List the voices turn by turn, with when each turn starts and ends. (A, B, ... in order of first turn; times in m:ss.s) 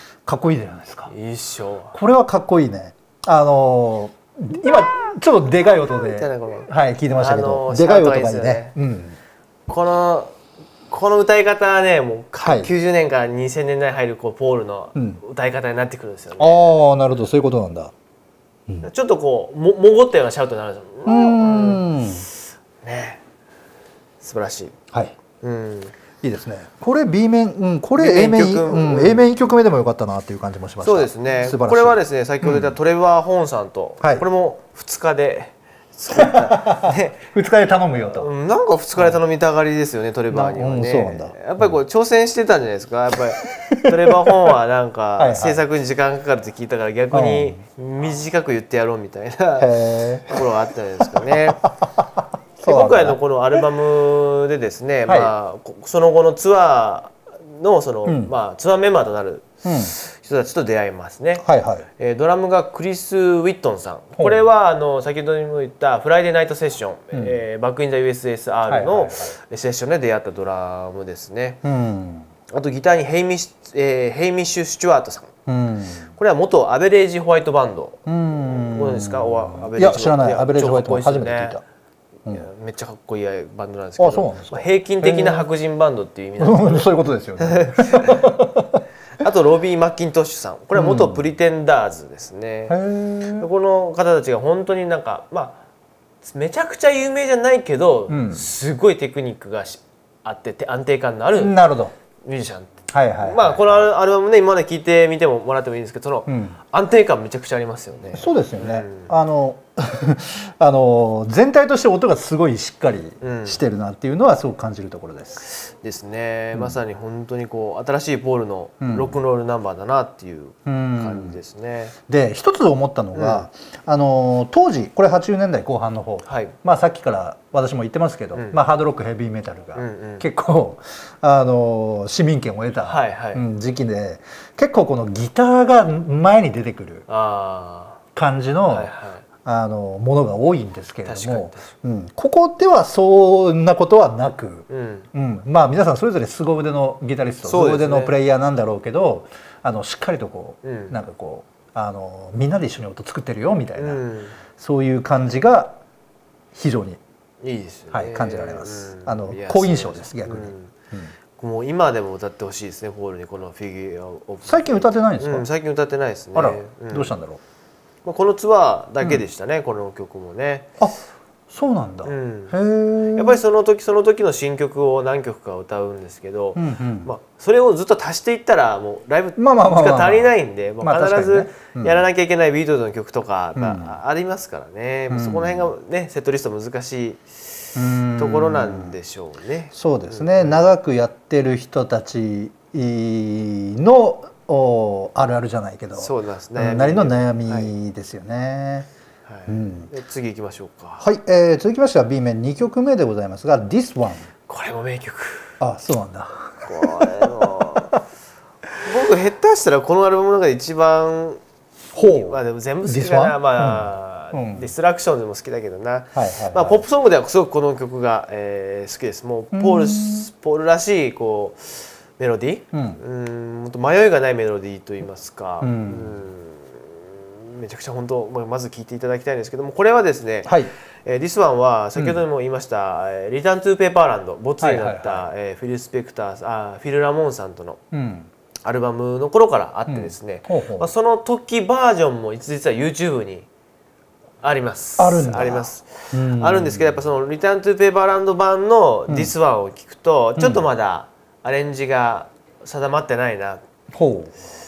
0:00.3-0:01.1 A
0:01.1-0:02.0 B
0:01.9-0:09.2 A
0:06.0-0:08.8 B
0:09.7-0:10.3 B
0:10.9-0:16.8 B
0:12.4-0:12.7 A
0:16.4-0:17.9 A
0:18.8-0:21.8 B
0:21.1-0:22.3 A
0:22.8-0:23.2 B
0:24.2-0:24.8 B
0:25.4-0:25.9 B
0:26.2-0:32.8 A
0:28.0-0:29.2 B
0:30.8-0:37.2 B
0:36.3-0:38.3 A
0:38.2-0:49.7 B
0:40.3-0:41.8 A
0:43.6-0:44.0 A
0:45.2-0:45.6 A
0:47.1-0:47.6 A
0:49.6-0:50.5 A
0:50.3-0:51.6 B
0:51.3-0:53.6 A
0:52.6-1:01.5 B
0:55.1-0:55.3 A
0:58.0-0:58.3 A
0:59.6-0:59.9 A
1:01.4-1:01.9 A
1:02.0-1:11.6 B
1:04.2-1:04.5 A
1:07.1-1:07.4 A
1:08.7-1:09.4 A
1:11.6-1:12.3 A
1:12.5-1:15.3 B
1:15.5-1:16.1 A
1:16.2-1:21.6 B
1:18.1-1:21.6 A
1:22.3-1:28.3 B
1:24.0-1:25.5 A
1:26.4-1:28.8 A
1:29.2-1:32.8 B
1:30.8-1:31.2 A
1:32.7-1:33.5 A
1:33.4-1:35.6 B
1:36.2-1:41.6 B
1:38.1-1:38.5 A
1:41.4-1:41.9 A
1:42.2-1:49.1 B
1:42.9-1:43.9 A
1:46.3-1:46.6 A
1:48.1-1:55.5 A
1:53.2-1:53.6 B
1:55.5-2:02.0 B
1:58.8-1:59.2 A
2:00.7-2:01.4 A
2:02.1-2:17.1 A
2:03.1-2:03.5 B
2:06.3-2:06.6 B
2:08.3-2:08.6 B
2:09.8-2:10.3 B
2:12.8-2:13.4 B
2:17.1-2:18.0 B
2:18.2-2:18.9 A
2:18.7-2:19.2 B
2:19.4-2:34.0 A
2:21.0-2:21.7 B
2:24.7-2:25.1 B
2:27.4-2:28.2 B
2:30.6-2:31.0 B
2:33.8-2:34.4 B
2:34.6-2:35.8 A
2:36.5-2:37.0 A
2:37.4-2:40.7 B
2:37.9-2:41.1 A
2:41.4-2:47.2 B
2:44.4-2:45.5 A
2:46.4-2:47.4 A
2:48.0-2:50.7 B
2:51.5-2:53.4 A
2:52.0-2:52.6 B
2:53.2-3:10.7 B
2:56.6-2:57.1 A
2:59.4-3:02.0 A
3:03.6-3:04.0 A
3:05.1-3:05.7 A
3:07.8-3:08.9 A
3:09.7-3:18.9 A
3:16.0-3:17.7 B
3:19.3-3:21.1 B
3:19.5-3:19.9 A
3:21.0-3:24.3 A
3:24.5-3:25.5 B
3:25.6-3:27.8 A
3:26.6-3:27.9 B
3:28.8-3:31.4 B
3:32.0-3:34.7 A
3:32.0-3:57.8 B
3:36.2-3:36.8 A
3:39.5-3:40.3 A
3:42.7-3:43.0 A
3:45.6-3:46.2 A
3:50.4-3:50.7 A
3:52.0-3:52.2 A
3:54.6-3:55.3 A
3:57.9-3:58.3 A
3:58.6-4:03.5 B
3:59.9-4:00.9 A
4:04.4-4:13.6 B
4:05.0-4:07.0 A
4:09.1-4:09.3 A
4:10.4-4:10.7 A
4:13.9-4:14.3 A